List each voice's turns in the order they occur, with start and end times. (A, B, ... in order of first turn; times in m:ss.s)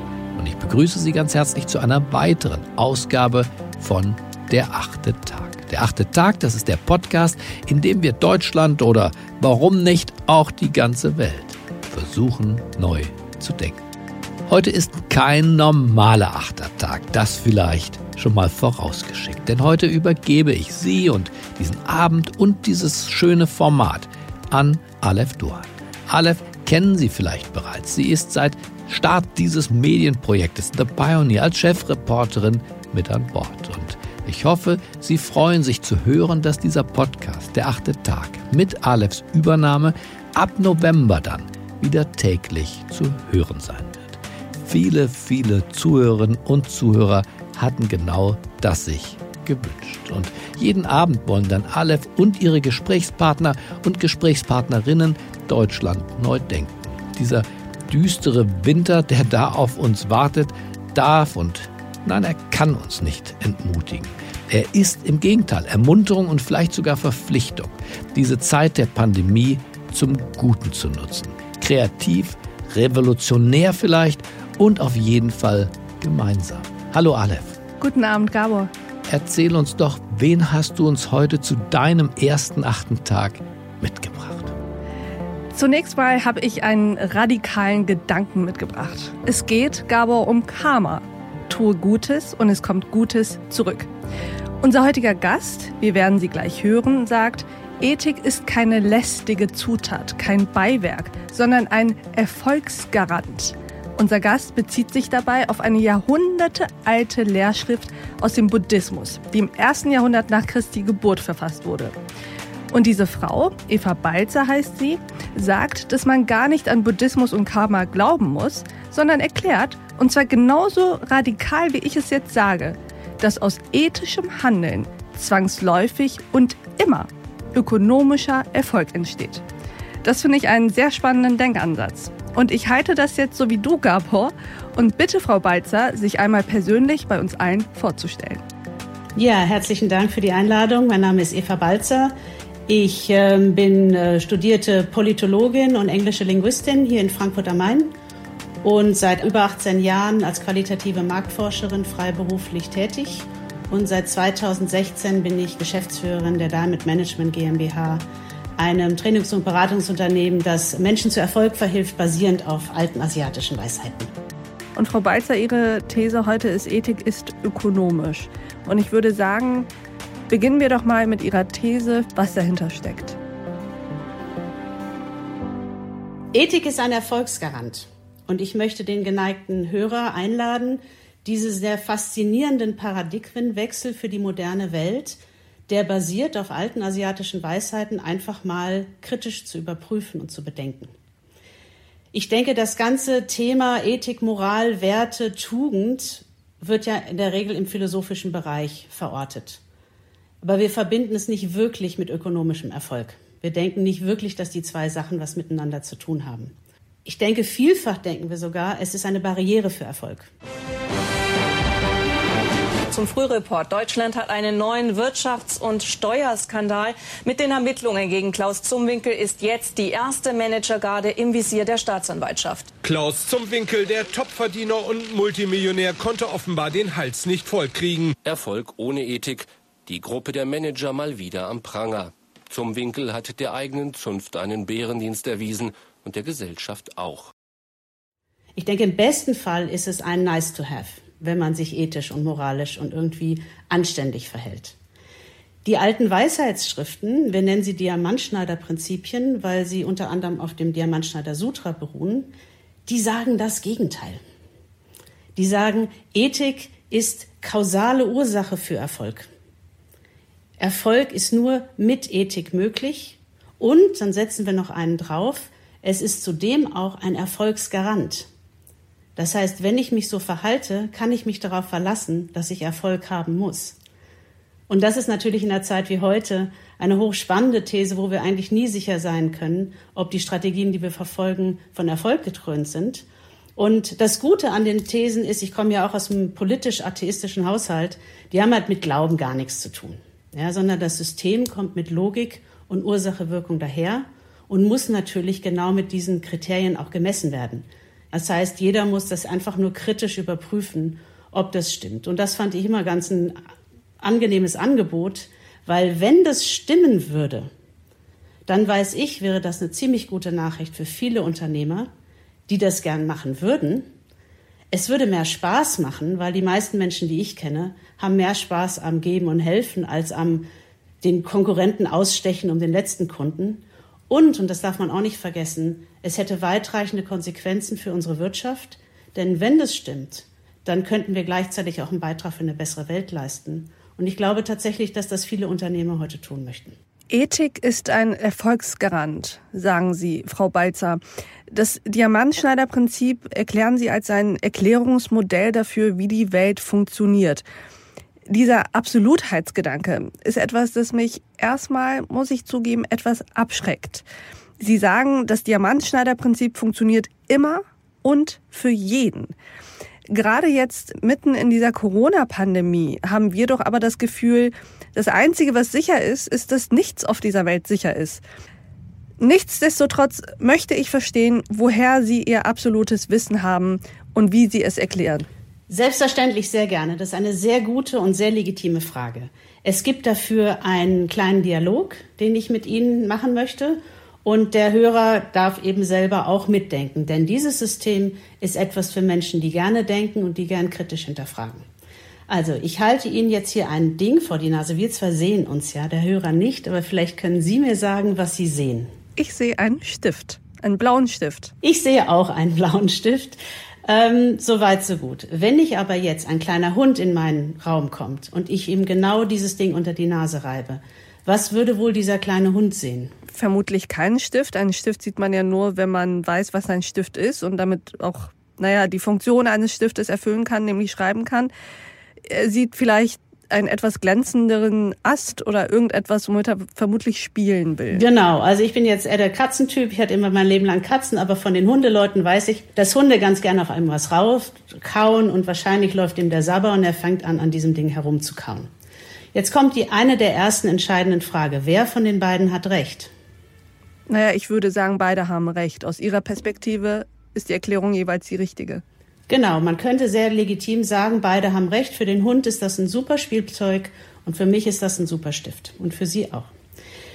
0:00.4-0:13.8 A
0:14.5-1:17.6 A
1:17.8-1:18.7 B
1:19.1-1:24.6 A
1:25.5-1:33.9 B
1:34.6-1:52.0 B
1:52.7-2:09.4 B
2:10.0-2:18.4 B
2:19.2-2:22.1 C
2:22.7-2:27.9 C
2:28.6-2:38.0 C
2:38.6-2:44.1 C
2:44.8-2:49.7 B
2:50.3-2:53.2 B
2:56.3-3:10.9 C
3:12.1-3:19.6 C
3:20.4-3:26.5 C
3:27.0-3:30.3 C
3:32.9-3:42.7 D
3:42.8-3:48.1 E
3:48.2-3:57.3 F
3:58.6-4:04.8 C
4:05.6-4:12.3 C
4:12.9-4:14.2 C
4:15.4-4:19.3 C
4:20.6-4:28.3 C
4:29.2-4:33.8 C
4:34.7-4:43.1 C
4:43.6-5:03.4 C
5:04.0-5:07.5 C
5:08.5-5:11.9 C
5:12.5-5:13.9 C
5:14.7-5:20.5 C
5:21.0-5:36.8 C
5:37.1-5:47.4 B
5:48.3-5:54.1 B
5:54.6-5:59.3 B
6:00.1-6:08.2 B
6:09.2-6:15.3 B
6:15.7-6:31.6 C
6:32.3-6:38.9 C
6:39.2-6:41.5 B
6:41.6-6:53.1 C
6:53.3-7:01.5 B
7:02.2-7:08.0 B
7:07.9-7:18.7 C
7:19.3-7:23.1 C
7:24.1-7:28.8 B
7:29.3-7:36.5 C